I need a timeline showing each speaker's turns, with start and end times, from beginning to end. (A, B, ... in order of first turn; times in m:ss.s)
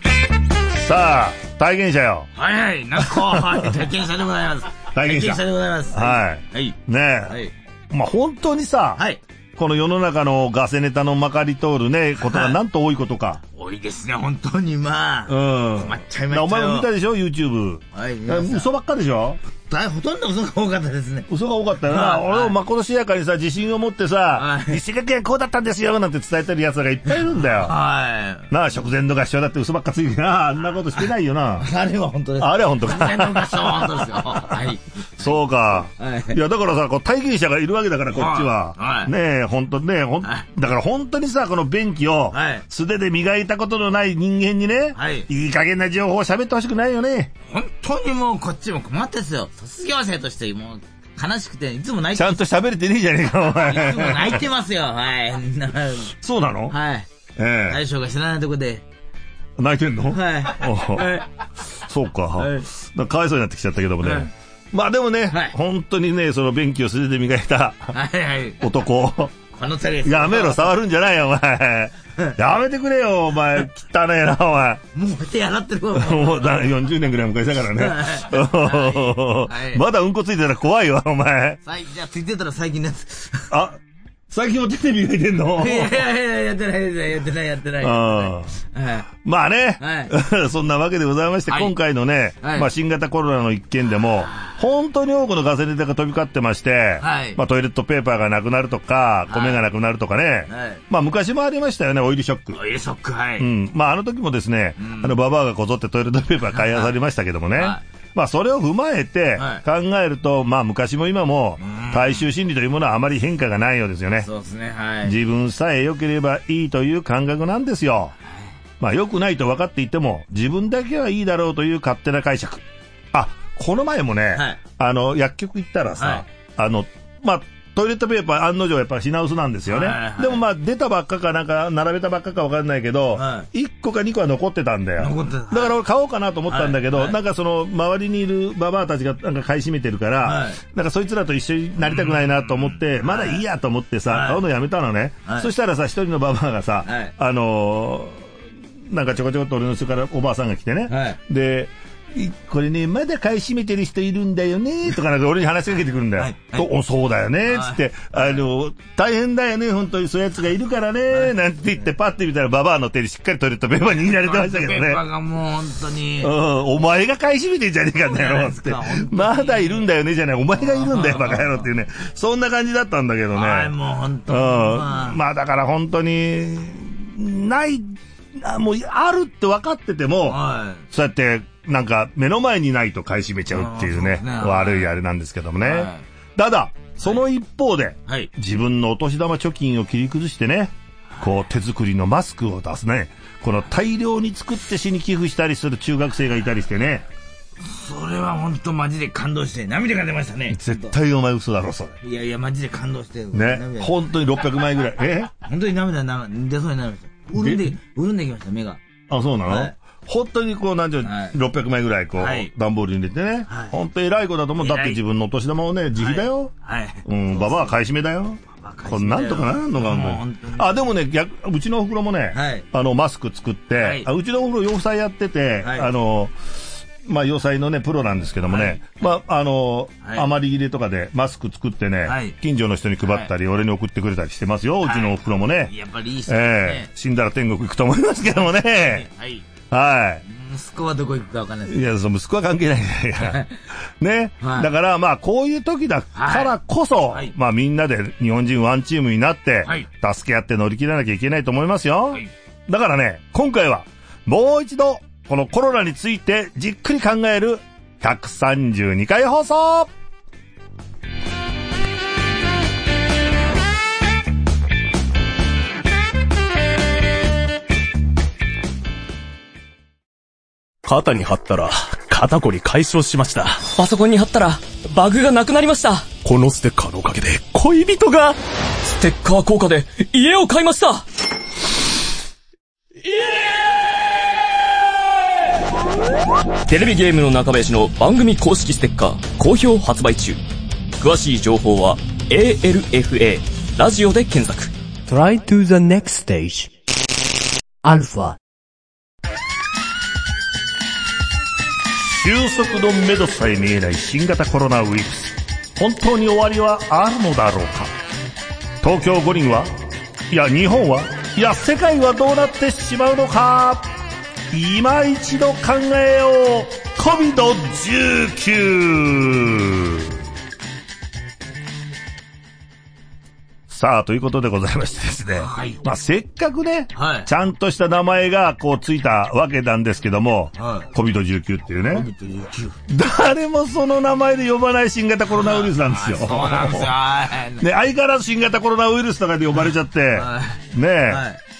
0:00.7-0:02.3 A
0:02.4-0:07.5 B
0:03.0-0:03.9 A
0:04.9-0:07.4 A
0:07.9-0:09.0 A
0:09.0-0:09.2 B
0:09.6-0:13.4 A
0:12.2-0:12.6 B
0:13.6-0:16.9 B
0:15.3-0:19.4 A
0:17.9-0:18.7 B
0:19.7-0:21.3 B
0:21.3-0:27.8 A
0:21.9-0:22.6 B
0:24.3-0:24.8 B
0:27.1-0:28.5 B
0:28.5-0:31.7 A
0:31.6-0:36.4 B
0:32.4-0:47.3 A
0:38.1-0:39.1 B
0:42.3-0:42.7 B
0:45.0-0:45.3 B
0:47.5-0:52.4 B
0:52.2-0:54.4 A
0:53.5-0:56.1 B
0:56.1-0:56.8 A
0:56.7-0:57.1 B
0:57.4-0:57.8 A
0:57.7-0:58.8 B
0:59.6-1:01.2 A
1:00.1-1:01.3 B
1:01.8-1:07.9 A
1:02.4-1:02.7 B
1:04.0-1:04.3 B
1:05.3-1:05.6 B
1:07.9-1:08.7 B
1:08.6-1:09.3 A
1:09.5-1:10.7 B
1:10.0-1:14.8 A
1:14.9-1:16.7 B
1:15.9-1:21.6 A
1:17.8-1:19.8 B
1:21.6-1:23.5 B
1:23.5-1:23.8 A
1:24.3-1:26.0 A
1:25.6-1:29.1 B
1:27.8-1:28.5 A
1:29.2-1:42.6 A
1:29.8-1:30.1 B
1:31.5-1:31.7 B
1:32.4-1:32.7 B
1:34.3-1:34.6 B
1:37.0-1:37.4 B
1:39.3-1:39.6 B
1:40.5-1:40.8 B
1:42.5-1:43.5 B
1:43.4-1:54.3 A
1:44.8-1:45.2 B
1:46.5-1:46.9 B
1:49.4-1:49.6 B
1:51.6-1:52.3 B
1:54.2-1:55.2 B
1:55.0-1:58.2 A
1:58.8-2:28.3 A
2:04.3-2:04.6 B
2:06.0-2:06.2 B
2:09.7-2:10.4 B
2:13.2-2:13.5 B
2:15.0-2:15.8 B
2:16.5-2:17.2 B
2:20.2-2:20.6 B
2:21.8-2:23.4 B
2:24.1-2:24.4 B
2:25.2-2:25.5 B
2:26.8-2:27.1 B
2:28.9-2:45.0 A
2:30.9-2:31.2 B
2:36.2-2:36.7 B
2:37.4-2:38.4 B
2:44.0-2:46.3 B
2:46.2-2:53.7 A
2:48.0-2:49.9 B
2:50.6-2:51.7 B
2:53.3-2:55.2 B
2:54.3-3:17.1 A
3:00.3-3:00.9 B
3:03.5-3:05.0 B
3:05.6-3:06.0 B
3:07.0-3:07.2 B
3:11.1-3:11.5 B
3:17.6-3:21.0 B
3:20.5-3:22.0 A
3:22.0-3:24.0 B
3:23.3-3:25.3 A
3:25.4-3:28.8 B
3:27.3-3:27.8 A
3:29.1-3:36.5 A
3:29.5-3:29.8 B
3:31.0-3:31.4 B
3:32.2-3:32.5 B
3:33.5-3:33.8 B
3:34.6-3:35.0 B
3:36.0-3:37.8 B
3:37.0-3:46.4 A
3:38.5-3:40.9 B
3:42.3-3:42.7 B
3:43.8-3:44.1 B
3:45.6-3:45.9 B
3:47.0-3:55.7 A
3:48.4-3:49.2 B
3:50.0-3:50.3 B
3:52.0-3:52.4 B
3:53.0-3:53.3 B
3:54.8-3:56.9 B
3:56.3-3:59.1 A
3:58.3-3:59.5 B
3:59.7-4:00.2 A
4:00.2-4:01.9 B
4:01.7-4:03.4 A
4:03.2-4:03.6 B
4:04.0-4:19.9 A
4:04.4-4:04.7 B
4:06.1-4:07.3 B
4:30.8-4:33.7 C
4:33.7-4:36.1 D
4:36.2-4:38.4 C
4:38.8-4:41.1 D
4:46.7-4:50.4 D
4:51.0-4:54.7 D
4:55.1-4:56.7 E
4:57.8-4:58.4 E
5:02.0-5:07.9 A
5:08.8-5:09.8 A
5:10.3-5:13.9 A
5:14.5-5:20.2 A
5:23.7-5:32.1 A
5:25.4-5:25.8 B
5:26.9-5:27.3 B
5:30.6-5:30.9 B
5:31.9-5:32.8 B
5:32.9-5:36.9 A
5:35.3-5:37.7 B
5:37.6-5:41.2 A
5:39.6-5:41.4 B